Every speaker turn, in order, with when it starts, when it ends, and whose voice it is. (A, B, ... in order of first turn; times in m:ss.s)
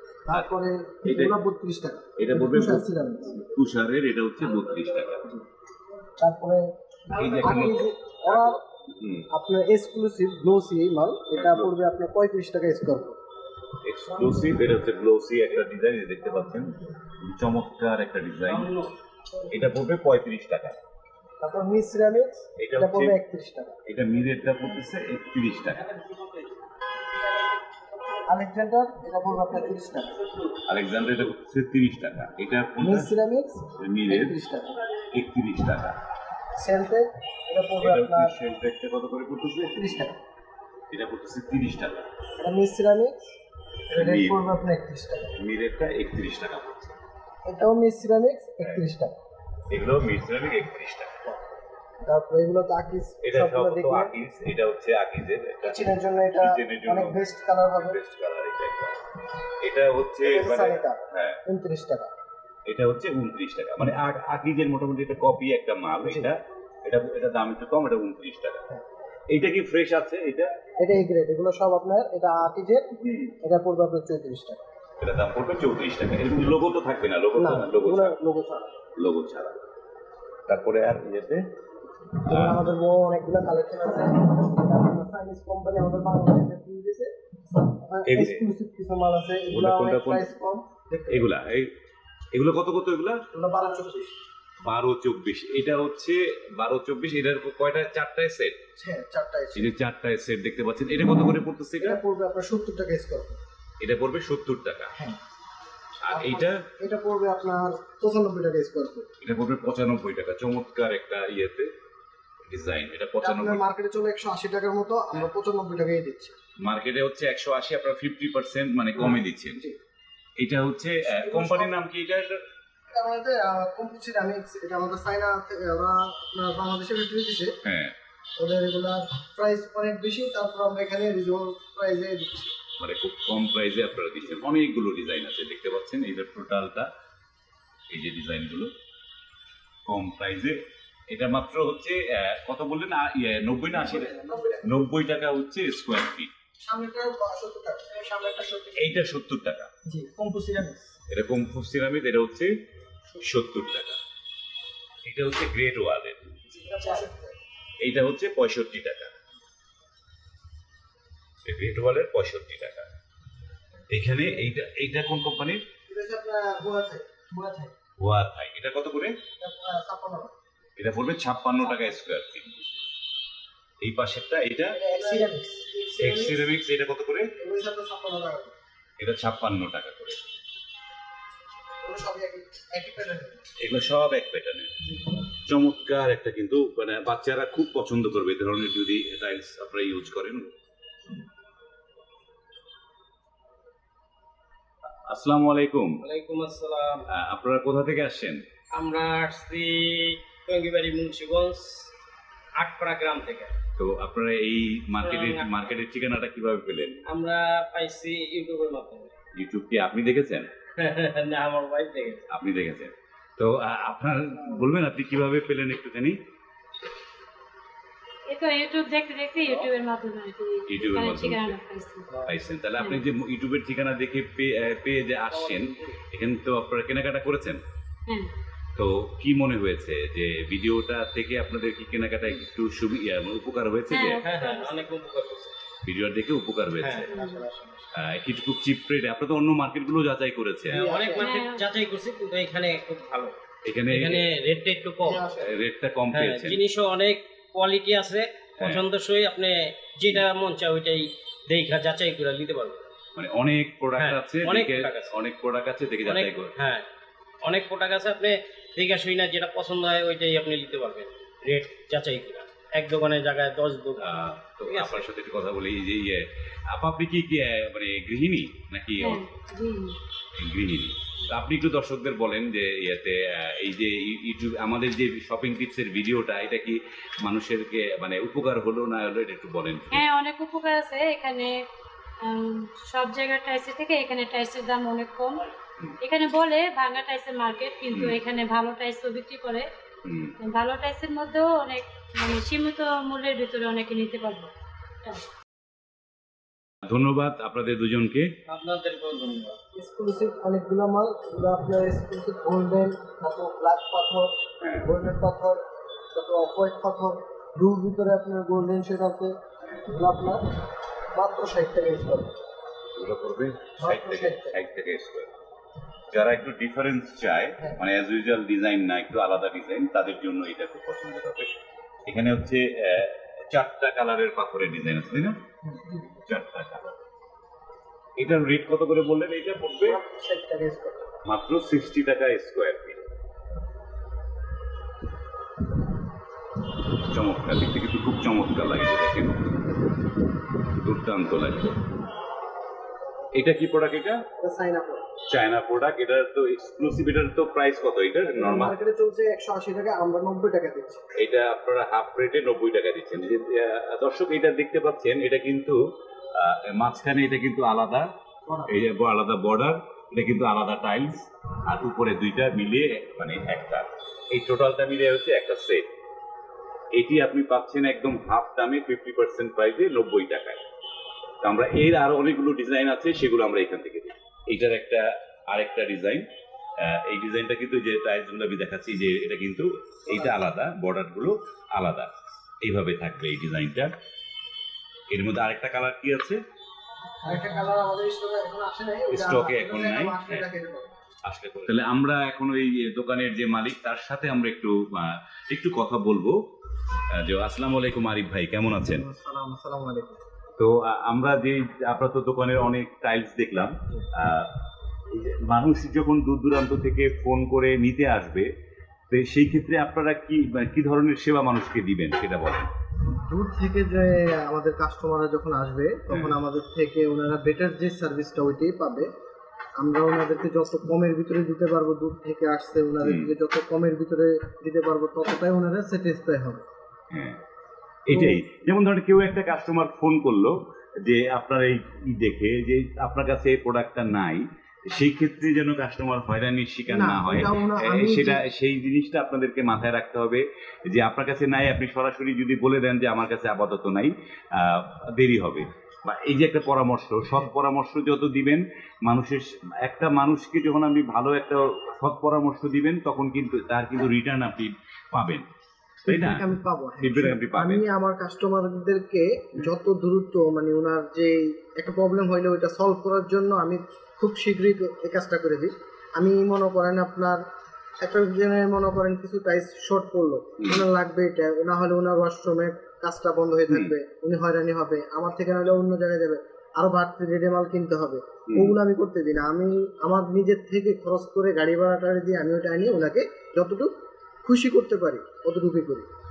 0:00.2-0:03.4 A
0:01.0-0:01.3 B
0:02.2-0:05.3 B
0:06.2-0:06.7 A
0:07.1-0:07.9 B
0:07.4-0:08.6 A
0:08.9-0:09.3 B
0:09.3-0:13.2 A
0:11.3-0:11.7 B
0:13.8-0:18.7 B
0:18.5-0:18.9 C
0:19.5-0:20.8 B
0:21.4-0:23.8 A
0:22.6-0:23.2 B
0:23.9-0:25.8 B
0:25.8-0:26.3 C
0:28.3-0:30.2 A
0:30.7-0:33.1 B
0:32.8-0:34.8 A
0:33.8-0:34.4 B
0:35.1-0:35.9 B
0:36.6-0:38.3 A
0:37.8-0:39.7 B
0:39.7-0:40.2 A
0:40.9-0:42.1 B
0:42.4-0:43.3 A
0:43.9-0:44.5 B
0:43.9-0:45.3 A
0:45.4-0:47.0 B
0:47.4-0:49.1 A
0:49.7-0:51.1 B
0:52.0-0:54.1 A
0:53.2-0:57.2 B
0:55.6-0:58.0 A
0:57.8-0:59.0 B
0:59.6-1:01.4 B
1:00.2-1:02.1 A
1:02.7-1:08.6 B
1:06.0-1:06.3 A
1:09.3-1:10.5 B
1:10.8-1:12.9 A
1:13.0-1:13.3 B
1:13.4-1:14.6 A
1:15.0-1:18.1 B
1:17.4-1:18.7 A
1:19.0-1:19.6 B
1:20.5-1:21.4 B
1:22.2-1:31.3 A
1:22.3-1:22.6 B
1:28.0-1:28.4 B
1:29.5-1:30.3 B
1:31.1-1:31.7 B
1:32.3-1:33.2 B
1:33.3-1:34.1 A
1:34.6-1:38.6 B
1:38.8-1:39.7 A
1:39.5-1:42.0 B
1:41.8-1:43.4 A
1:43.8-1:44.9 B
1:46.0-1:46.5 B
1:46.1-1:49.1 A
1:49.2-1:51.7 B
1:52.5-1:53.6 B
1:53.2-1:56.3 A
1:56.6-1:59.6 B
1:59.0-1:59.8 A
2:00.4-2:02.4 B
2:01.0-2:01.7 A
2:02.9-2:07.5 A
2:07.6-2:07.9 B
2:08.4-2:12.5 A
2:12.8-2:16.9 B
2:17.9-2:18.7 B
2:19.8-2:20.5 B
2:21.1-2:26.3 B
2:23.7-2:24.8 A
2:26.6-2:28.1 A
2:28.0-2:28.9 D
2:28.7-2:29.7 B
2:29.8-2:30.9 D
2:31.1-2:32.5 B
2:33.2-2:34.0 B
2:35.0-2:36.2 B
2:36.5-2:37.0 D
2:36.6-2:37.4 A
2:37.8-2:39.1 B
2:41.4-2:42.9 B
2:43.9-2:45.6 B
2:45.9-2:47.0 A
2:47.3-2:47.7 D
2:48.0-2:49.1 B
2:49.4-2:50.3 A
2:50.8-2:52.5 B
2:53.8-2:54.8 B
2:54.7-2:56.3 A
2:54.8-2:56.1 D
2:56.0-2:57.3 B
2:57.4-2:58.5 A
2:59.0-3:00.3 B
3:01.8-3:03.4 A
3:03.6-3:04.7 B
3:05.4-3:10.5 B
3:15.1-3:16.0 B
3:16.0-3:17.0 C
3:17.1-3:18.4 B
3:18.8-3:21.9 C
3:22.6-3:23.5 C
3:23.8-3:27.0 B
3:25.0-3:25.5 C
3:27.1-3:29.1 C
3:29.4-3:30.5 B
3:30.8-3:32.2 C
3:32.3-3:36.2 B
3:38.3-3:42.2 E
3:40.7-3:41.6 B
3:42.2-3:47.6 B
3:45.4-3:45.8 C
3:48.8-3:54.2 B
3:53.9-3:54.8 E
3:54.2-3:55.5 C
3:55.8-3:57.1 B
3:56.8-3:57.1 C
3:57.1-3:57.8 A
3:57.2-3:57.4 E
3:58.0-4:00.8 B
4:00.7-4:03.3 C
4:00.7-4:01.3 A
4:01.2-4:01.6 E
4:03.6-4:04.3 B
4:03.9-4:05.4 C
4:05.0-4:05.6 A
4:05.4-4:06.6 B
4:06.1-4:12.9 C
4:08.6-4:08.8 B
4:13.1-4:16.5 B
4:14.0-4:15.2 C
4:16.0-4:16.8 C
4:17.4-4:25.0 C
4:24.0-4:29.3 B
4:29.0-4:29.9 E
4:30.4-4:40.1 B
4:39.9-4:41.5 E
4:42.2-4:45.4 E
4:46.0-4:49.7 E
4:47.9-4:48.2 B
4:50.0-4:50.3 B
4:50.4-4:54.5 E
4:56.9-4:58.3 B
4:58.5-4:59.6 C
4:59.7-5:04.3 A
5:04.6-5:04.9 B
5:04.8-5:05.6 A
5:06.1-5:09.3 A
5:09.9-5:10.4 A
5:11.1-5:12.3 A
5:13.0-5:15.3 B
5:13.8-5:14.5 A
5:16.1-5:21.5 B
5:22.1-5:25.4 B
5:25.7-5:26.0 A
5:26.2-5:26.9 B
5:28.2-5:30.0 B
5:29.8-5:31.0 A
5:31.2-5:33.0 B
5:37.1-5:39.5 B
5:40.8-5:41.8 B
5:43.3-5:44.2 B
5:44.4-5:45.0 A
5:45.3-5:48.8 B
5:48.3-5:51.0 A
5:51.2-5:55.8 B
5:56.4-5:58.0 B
5:58.4-5:58.7 A
5:58.7-6:05.8 B
6:06.9-6:10.6 B
6:11.4-6:16.2 B
6:16.8-6:22.1 B
6:22.6-6:23.9 B
6:25.1-6:26.4 B
6:27.2-6:30.9 A
6:29.1-6:30.5 B
6:31.2-6:36.4 B
6:37.2-6:39.0 B
6:38.9-6:40.2 A
6:40.6-6:44.5 B
6:45.1-6:48.5 B
6:49.1-6:52.7 B
6:53.3-6:59.1 A
6:56.1-6:56.4 B
6:59.8-7:06.6 A
7:03.0-7:03.3 B
7:07.1-7:07.4 B
7:08.1-7:35.4 B
7:08.1-7:08.4 A
7:16.9-7:18.4 A
7:36.1-7:36.5 B
7:36.1-7:47.4 A
7:37.0-7:37.8 B
7:48.0-8:03.9 A
7:53.7-7:53.9 B
7:58.5-7:58.7 B
8:04.4-8:06.1 A